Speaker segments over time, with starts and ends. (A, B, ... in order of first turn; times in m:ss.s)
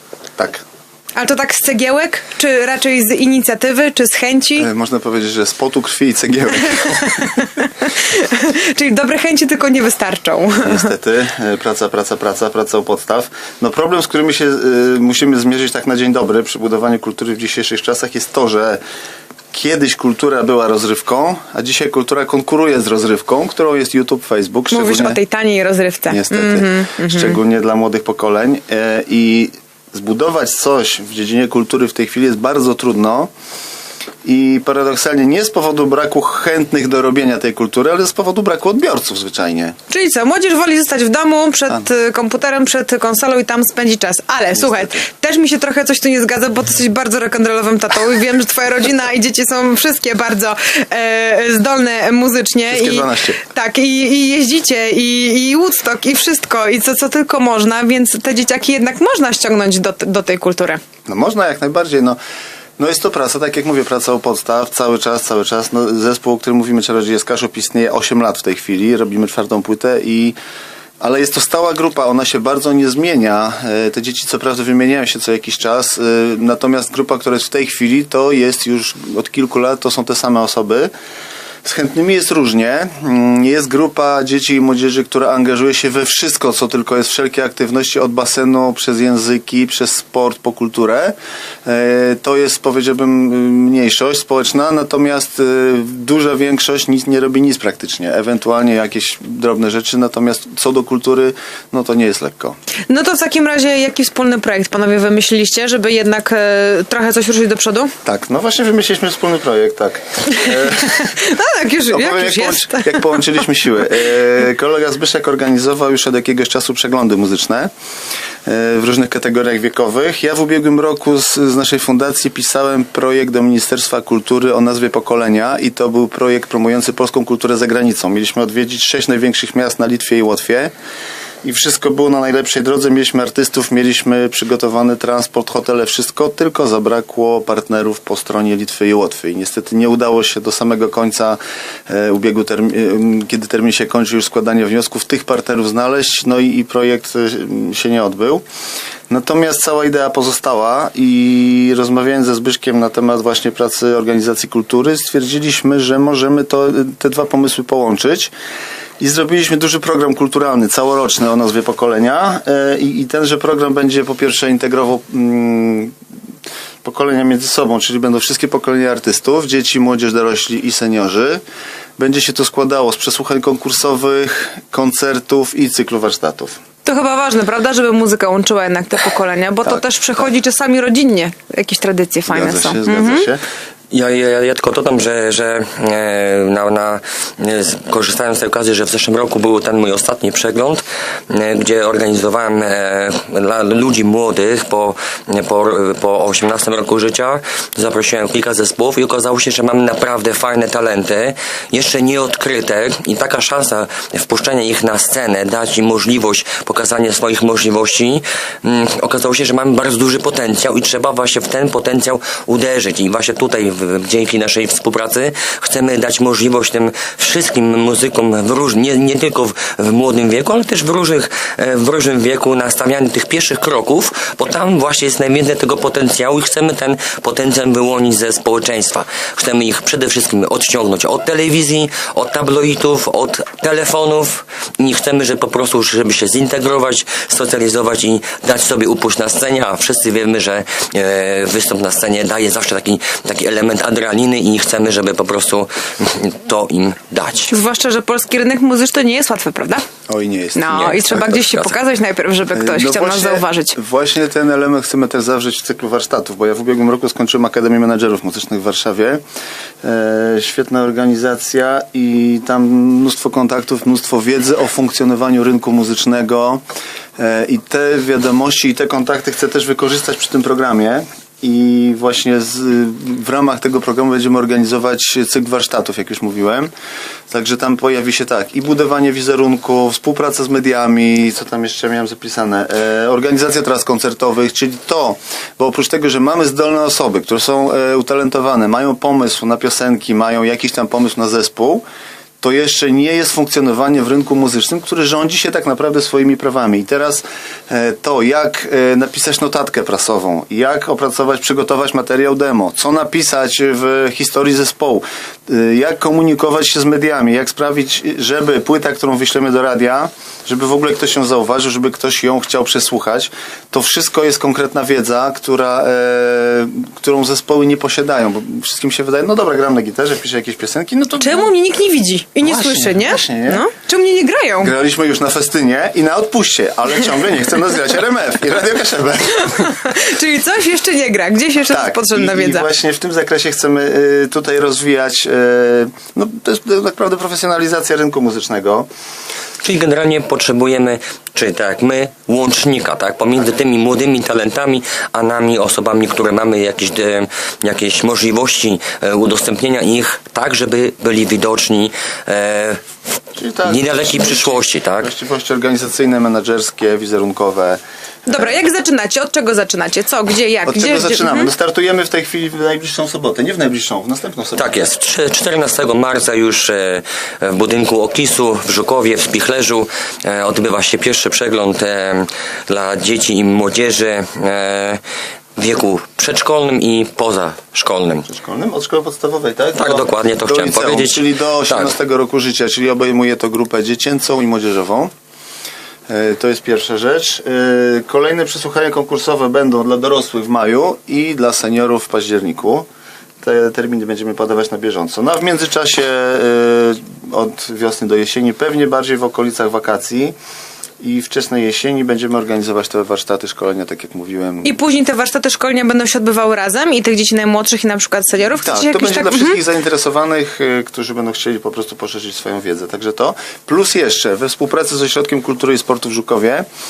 0:00.4-0:00.6 A
0:01.2-0:04.7 B
0:04.6-0:07.4 A
0:06.8-0:10.9 B
0:10.6-0:18.8 A
0:19.5-0:25.2 A
0:24.7-0:27.4 B
0:26.1-0:33.3 A
0:34.2-0:39.8 A
0:39.9-1:00.8 B
0:44.5-0:45.1 A
0:52.7-0:53.4 A
1:01.1-1:02.2 A
1:02.8-1:10.4 A
1:11.0-1:20.9 A
1:21.6-1:42.6 A
1:42.9-1:47.9 B
1:48.0-1:51.2 A
1:50.4-1:53.2 B
1:51.9-1:57.7 A
1:58.4-2:10.7 A
2:11.4-2:28.4 A
2:29.1-2:38.3 A
2:39.0-2:45.9 A
2:46.8-2:51.4 A
2:52.0-2:56.6 A
2:56.8-3:03.3 B
3:02.3-3:03.4 A
3:03.9-4:07.5 C
4:07.5-4:09.8 B
4:10.1-4:11.0 A
4:10.5-4:13.8 B
4:10.7-4:11.8 C
4:12.5-4:19.2 A
4:19.8-4:26.6 A
4:27.2-4:36.7 A
4:37.3-4:51.8 A
4:52.4-5:21.5 A
5:21.2-5:24.7 B
5:22.4-5:23.6 A
5:24.6-5:29.6 A
5:29.4-5:32.7 B
5:31.7-5:38.9 A
5:39.6-5:52.8 C
5:53.3-5:58.5 A
5:53.6-5:55.1 C
5:58.3-6:01.5 B
6:00.7-6:04.8 A
6:04.6-6:15.0 C
6:15.6-6:18.2 C
6:18.3-6:25.1 A
6:19.7-6:21.9 C
6:26.1-6:32.8 A
6:33.4-6:40.3 A
6:41.0-6:44.8 A
6:44.6-6:49.6 B
6:48.6-6:56.6 A